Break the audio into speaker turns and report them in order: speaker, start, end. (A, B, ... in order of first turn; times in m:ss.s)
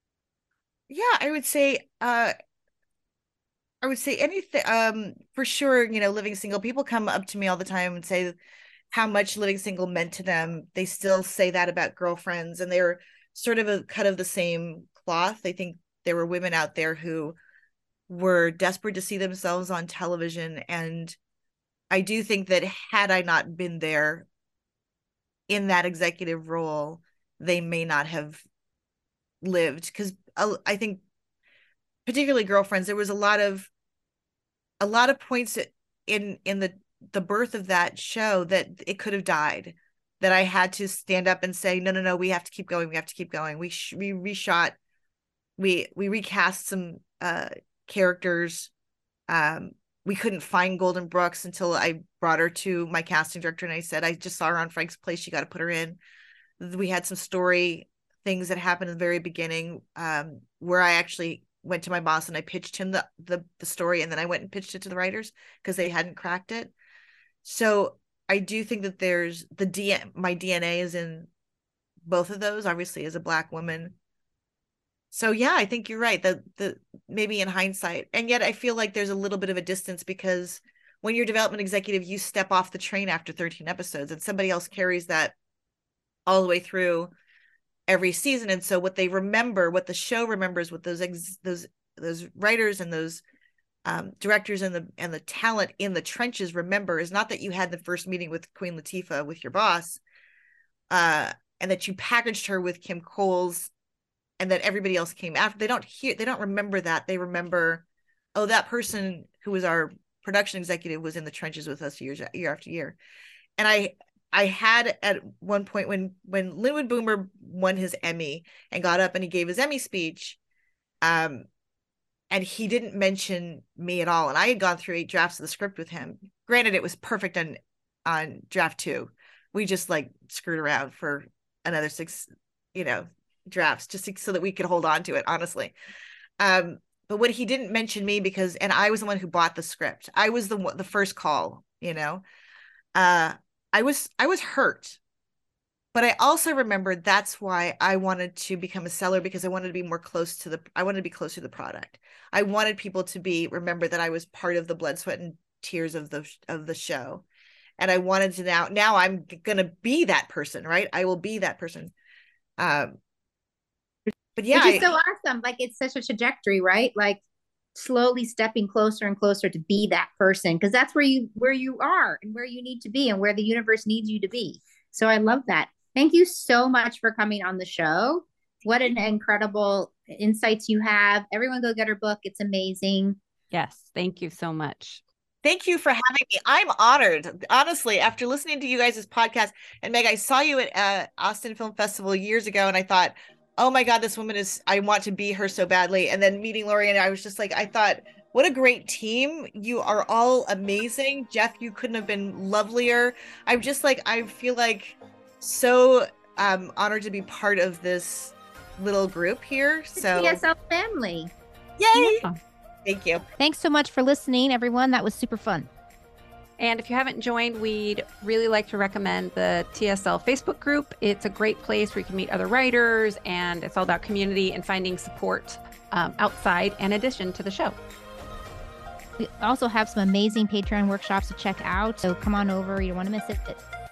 0:00.9-0:02.3 A
0:03.8-0:08.4 A
0:08.9-0:17.4 A
0:18.1-0:21.2 A
0:21.9-0:24.3 A
0:25.5-0:28.4 A
0:29.4-0:31.0 A
0:32.1-0:33.7 A
0:34.8-0:44.8 A
0:45.6-0:48.7 A
0:49.3-0:56.0 A
0:56.6-1:06.7 A
1:07.4-1:11.3 A
1:12.1-1:14.0 A
1:15.1-1:25.4 A
1:26.3-1:27.1 A
1:27.9-1:33.2 A
1:33.9-1:40.0 A
1:40.9-1:43.7 A
1:44.4-1:47.8 A
1:48.4-1:53.0 A
1:53.6-2:00.4 A
2:01.0-2:01.5 A
2:02.3-2:15.8 A
2:16.4-2:22.2 A
2:23.0-2:25.0 A
2:25.9-2:37.2 A
2:37.8-2:41.9 A
2:42.6-2:42.9 A
2:44.4-2:44.9 A
2:44.5-2:47.2 B
2:47.8-3:03.2 B
3:03.5-3:05.0 C
3:05.4-3:30.4 A
3:30.0-3:31.3 B
3:31.8-3:32.3 A
3:32.8-3:33.2 A
3:33.4-3:35.7 B
3:36.6-3:47.8 C
3:49.2-3:53.6 B